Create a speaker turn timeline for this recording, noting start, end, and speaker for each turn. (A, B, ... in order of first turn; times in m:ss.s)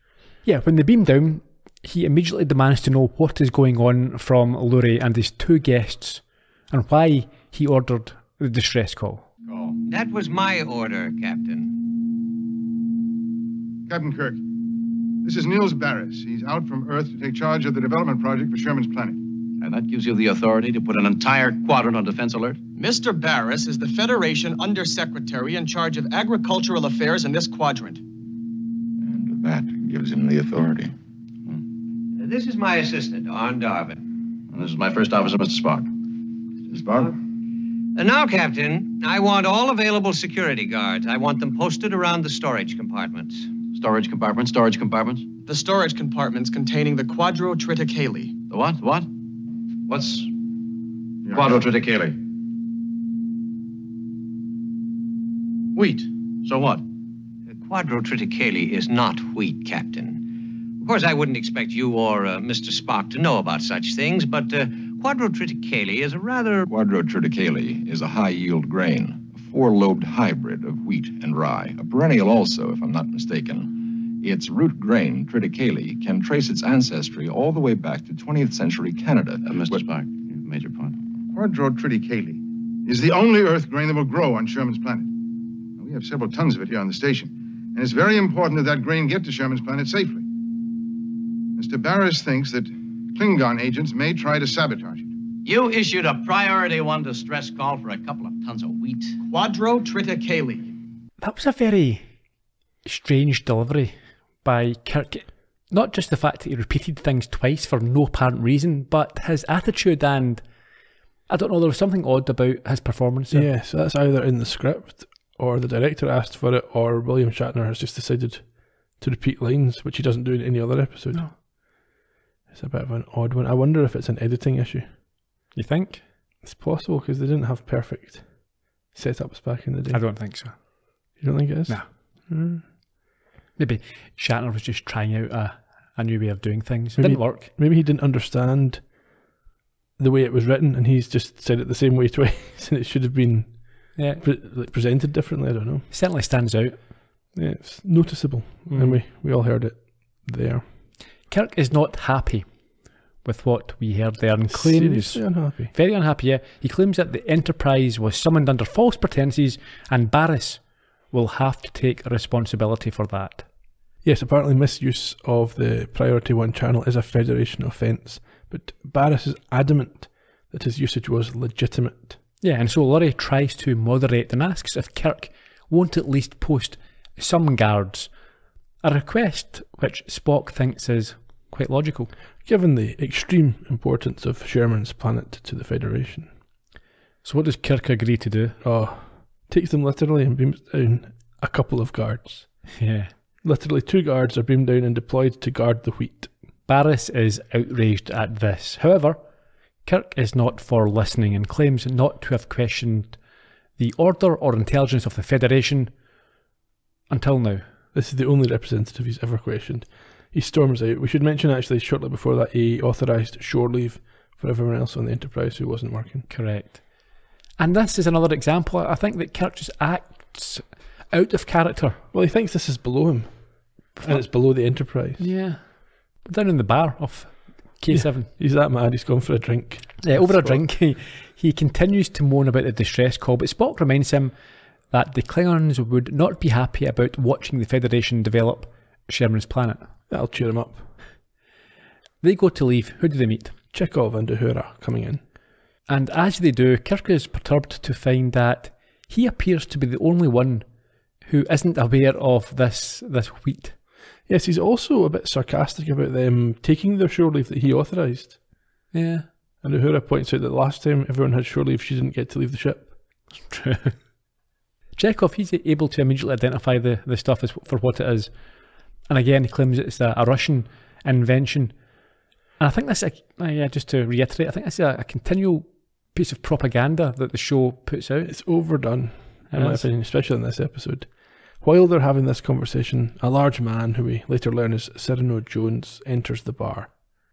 0:00.4-0:09.2 A
0:09.8-0:11.7 B
0:13.9-0:14.4 C
0:15.2-0:19.2 C
0:19.6-0:22.6 D
0:22.8-0:28.0 E
0:29.0-0:30.9 F
0:32.2-0:34.0 B
0:34.5-0:35.9 D
0:36.7-0:37.0 F
0:37.9-0:43.5 B
0:43.7-0:45.2 D
0:45.4-0:48.4 E
0:48.5-0:49.1 D
0:49.9-0:50.3 D
0:51.3-0:51.6 C
0:51.3-0:52.2 D
0:55.8-0:56.0 B
0:56.4-0:56.8 D
0:57.6-1:06.7 B
1:06.7-1:19.5 F
1:19.4-1:21.0 D
1:21.3-1:25.1 C
1:25.8-1:30.2 C
1:31.6-1:35.1 C
1:35.4-1:38.4 B
1:38.3-1:39.1 D
1:39.3-1:40.7 E
1:41.2-1:42.0 A
1:42.8-1:50.5 A
1:51.2-1:53.5 A
1:53.3-2:01.4 G
2:02.5-2:04.9 G
2:05.5-2:06.0 A
2:06.4-2:10.1 G
2:09.9-2:10.6 A
2:11.2-2:12.6 G
2:11.2-2:11.8 A
2:13.6-2:17.5 A
2:17.0-2:18.9 G
2:20.0-2:25.9 G
2:24.0-2:24.2 A
2:25.9-2:26.8 A
2:27.3-2:30.7 G
2:28.7-2:29.0 A
2:31.3-2:32.6 A
2:33.2-2:43.5 A
2:34.5-2:35.7 G
2:44.0-2:52.2 G
2:52.4-2:58.1 A
2:58.8-3:02.1 A
3:02.4-3:06.3 G
3:07.2-3:08.6 A
3:08.6-3:12.8 G
3:12.8-3:13.1 A
3:13.4-3:16.3 G
3:16.7-3:19.2 A
3:19.8-3:23.2 A
3:23.8-3:25.9 A
3:27.1-3:27.6 A
3:27.9-3:36.3 G
3:36.3-3:42.0 A
3:42.1-3:45.3 G
3:44.0-3:48.3 A
3:47.9-3:50.6 G
3:50.0-3:54.4 A
3:54.9-3:59.9 A
4:00.1-4:00.9 G
4:02.2-4:03.5 A
4:03.7-4:05.2 G
4:05.9-4:10.7 A
4:11.2-4:13.8 A
4:14.2-4:18.4 G
4:18.9-4:19.2 A
4:19.6-4:23.0 G
4:23.4-4:24.1 A
4:25.0-4:32.0 A
4:32.6-4:38.8 A
4:38.2-4:46.9 G
4:39.5-4:39.9 A